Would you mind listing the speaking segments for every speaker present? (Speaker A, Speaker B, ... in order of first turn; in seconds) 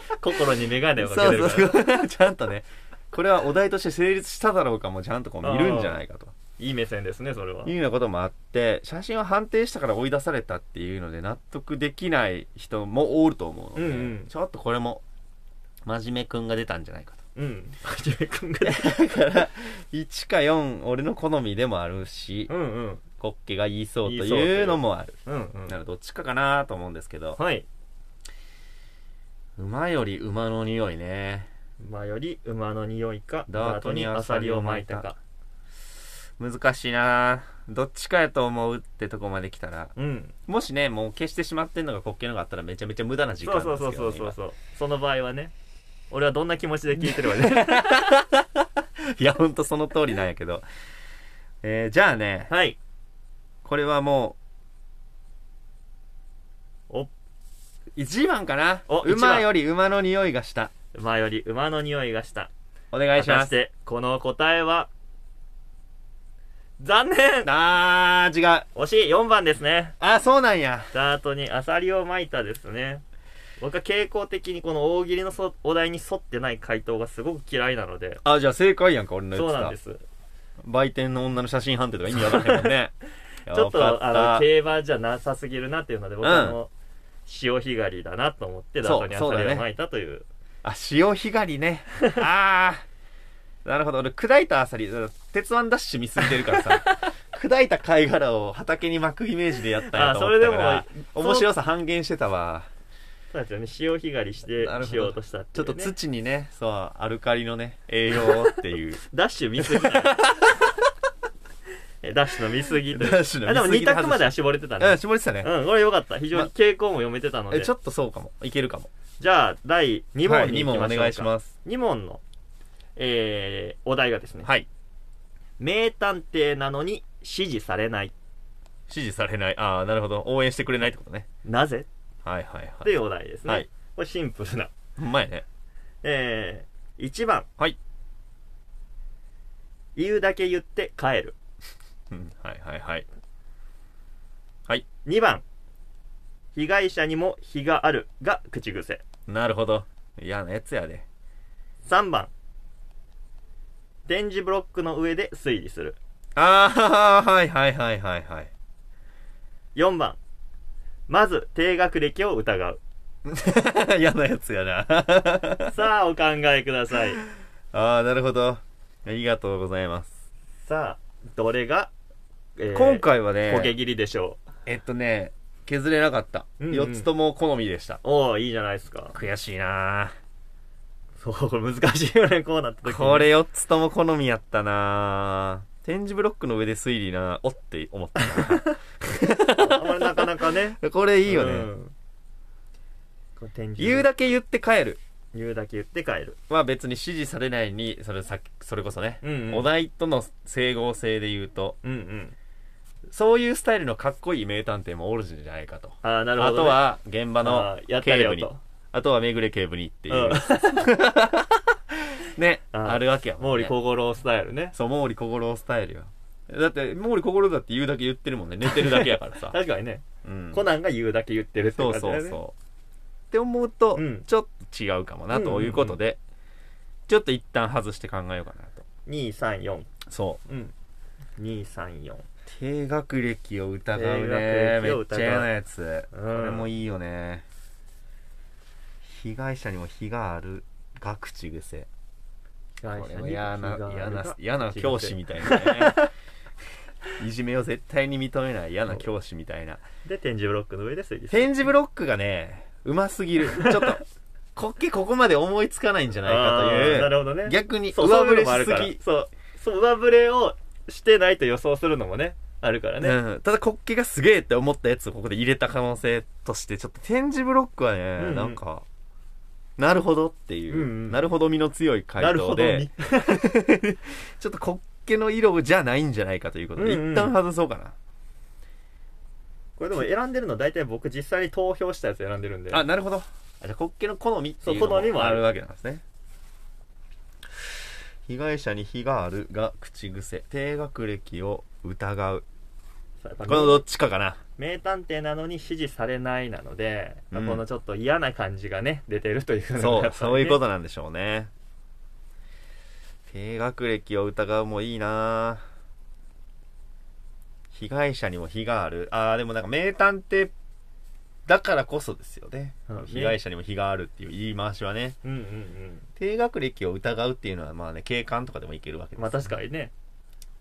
Speaker A: 0.2-1.8, 5.4-6.0, 6.6-7.7, 13.8-14.3, 17.4-19.0, 22.5-23.0, 24.1-25.8, 27.4-27.7, 31.8-35.2, 40.0-40.3, 43.4-45.5, 46.1-48.0, 52.5-52.8, 58.9-59.5, 60.9-62.5, 63.1-64.9, 66.8-67.5, 68.8-70.0, 70.9-73.0, 73.6-78.2, 79.3-80.0, 82.3-82.7, 83.5-86.7, 87.3-90.3, 96.2-97.1, 99.9-101.5, 103.3-105.9, 108.2-110.3, 112.0-117.7, 119.2-122.2, 123.0-124.5, 125.6-128.1, 131.4-131.9, 132.8-134.7, 136.0-137.5, 140.0-141.4, 145.1-145.4, 146.6-149.0, 151.8-152.3, 154.1-156.0, 159.8-160.2, 161.1-162.8, 165.7-167.2, 170.7-171.9, 172.6-174.4, 176.6-177.1, 178.0-179.2, 181.2-183.3, 188.4-188.7, 189.6-191.9, 193.4-194.1, 195.3-196.4, 199.2-199.7, 201.8-202.3, 206.0-206.8, 207.4-208.6, 210.1-210.9, 212.7-214.8, 218.7-222.4, 223.9-224.3, 225.3-226.0, 229.1-229.9, 230.5-230.7, 231.4-232.3, 233.9-235.5, 236.1-236.7, 242.8-246.1, 250.1-251.7, 253.5-254.0, 256.2-263.2, 268.2-268.6, 270.7-271.2, 272.2-273.4, 276.8-277.3, 279.8-282.8, 284.6-285.4, 293.2-293.8, 294.6-300.6, 312.9-313.4, 315.2-316.1, 319.2-319.9
Speaker B: 1.0-6.3, 7.7-15.0, 15.8-17.2, 18.6-22.5, 23.2-27.4, 29.6-31.5, 33.5-35.1, 36.4-39.9, 40.5-44.4, 47.0-50.6, 51.6-52.5, 53.6-54.4, 58.0-60.7, 62.9-63.5, 67.5-68.7, 70.0-70.9, 78.2-79.8, 80.6-82.9, 83.5-84.5, 86.2-86.6, 88.8-89.7, 90.6-92.8, 93.7-102.7, 104.6-109.0, 109.6-110.7, 112.9-115.5, 117.5-118.9, 120.2-121.5, 128.9-131.3, 132.2-133.7, 135.0-135.4, 142.1-143.1, 149.3-151.1, 156.4-158.5, 163.2-165.8, 167.7-170.1, 172.7-173.7, 174.7-178.0, 179.1-180.1, 182.8-191.7, 193.8-195.0, 196.5-201.8, 203.1-213.8, 214.7-219.6, 220.2-220.6, 221.8-222.5, 223.3-226.2, 227.1-228.8, 230.1-230.4, 232.5-237.4, 239.0-241.9, 242.9-246.1, 247.2-249.8, 251.3-254.0, 254.6-259.0, 263.0-268.9, 269.8-277.9, 282.7-286.0, 288.3-292.4, 293.5-294.4, 297.3-297.6, 299.8-301.5, 303.3-305.6, 307.7-310.5, 311.5-315.2, 316.2-319.5